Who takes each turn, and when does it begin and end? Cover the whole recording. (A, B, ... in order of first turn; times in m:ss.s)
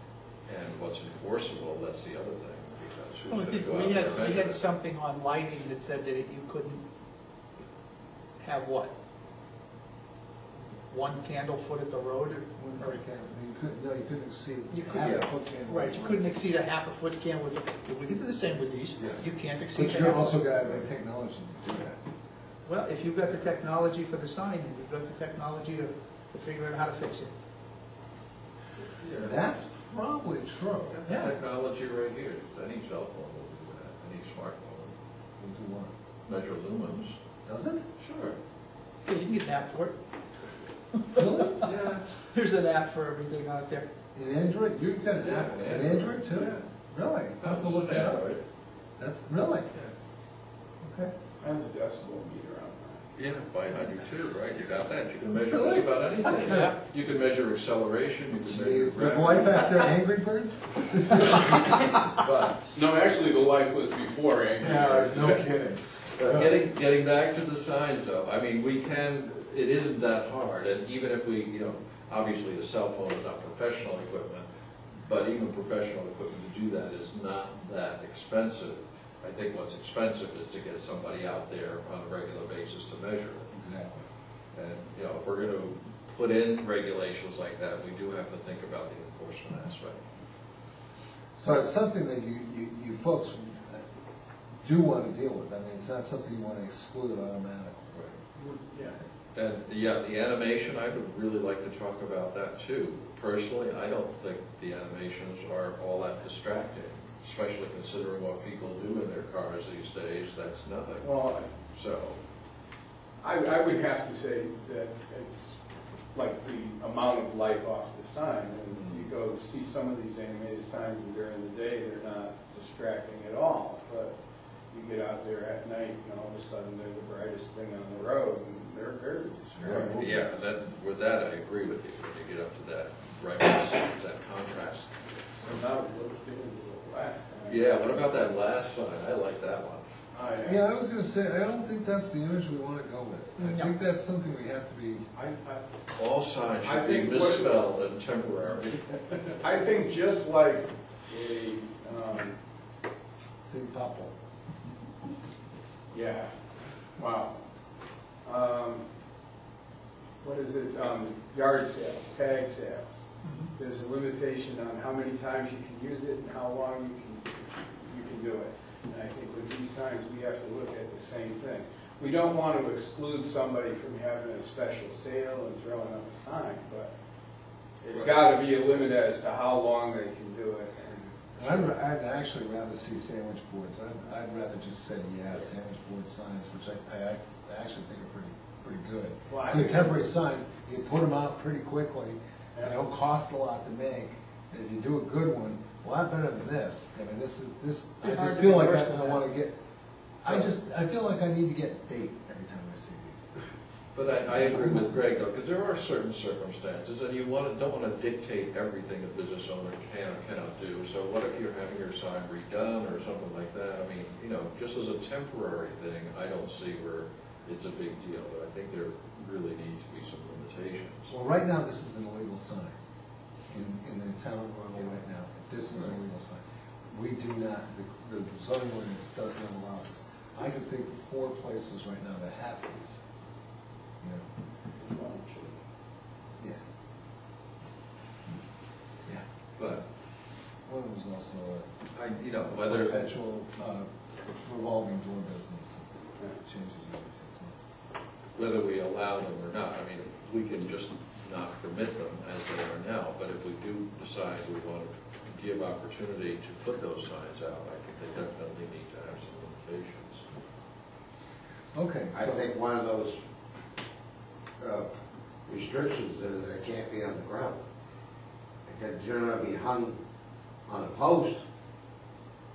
0:00.5-0:04.6 A
0:03.3-0:06.8 B
0:08.4-0:08.9 B
0:10.9-0:13.0 B
0:12.6-0:16.3 C
0:14.7-0:20.4 B
0:15.0-0:15.3 A
0:19.0-0:22.0 C
0:22.7-0:27.3 B
0:29.0-0:29.4 A
0:29.2-0:31.0 C
0:30.9-0:35.0 A
0:35.4-0:35.9 C
0:36.3-0:37.2 A
0:37.4-0:37.8 C
0:38.0-0:38.4 A
0:39.1-0:40.0 B
0:40.9-0:41.5 B
0:41.2-0:41.7 C
0:41.6-0:42.1 A
0:42.2-0:43.9 B
0:44.1-0:48.3 C
0:45.2-0:46.7 A
0:47.4-0:48.4 A
0:49.0-0:49.7 C
0:50.8-0:51.1 C
0:51.4-0:53.0 D
0:53.2-0:59.8 A
0:55.5-0:56.7 C
0:58.4-1:01.4 C
1:01.1-1:02.7 A
1:02.7-1:05.4 D
1:04.6-1:06.6 C
1:06.2-1:14.4 A
1:15.0-1:23.5 A
1:23.5-1:24.0 C
1:24.5-1:30.0 A
1:31.4-1:33.8 C
1:34.6-1:37.9 C
1:38.4-1:39.0 D
1:39.3-1:52.2 A
1:51.0-1:51.5 D
1:53.2-1:55.6 D
1:56.1-2:04.1 D
1:58.7-1:59.1 A
2:04.7-2:10.1 D
2:09.6-2:10.3 C
2:09.6-2:14.9 A
2:15.4-2:18.3 D
2:17.5-2:19.8 A
2:20.1-2:20.6 D
2:20.4-2:25.1 C
2:23.4-2:23.7 B
2:25.1-2:25.6 D
2:26.0-2:29.3 A
2:26.6-2:27.6 D
2:29.4-2:32.4 D
2:33.4-2:34.1 C
2:35.9-2:36.3 D
2:37.0-2:37.4 D
2:38.2-2:38.8 D
2:40.2-2:56.9 D
2:43.2-2:43.5 B
2:57.8-3:01.7 D
3:01.4-3:19.6 C
3:09.3-3:09.9 D
3:18.0-3:19.2 B
3:20.2-3:23.3 C
3:23.9-3:41.1 A
3:24.3-3:24.9 C
3:41.1-3:42.8 C
3:43.5-3:53.0 C
3:54.0-3:54.3 C
3:54.8-3:55.6 D
3:59.6-3:59.8 A
4:00.7-4:01.7 C
4:01.9-4:03.1 A
4:02.5-4:03.9 C
4:04.4-4:07.6 C
4:08.4-4:20.2 A
4:21.7-4:22.5 C
4:22.1-4:23.2 E
4:24.6-4:24.9 E
4:25.5-4:27.6 E
4:28.7-4:30.0 E
4:30.7-4:31.4 E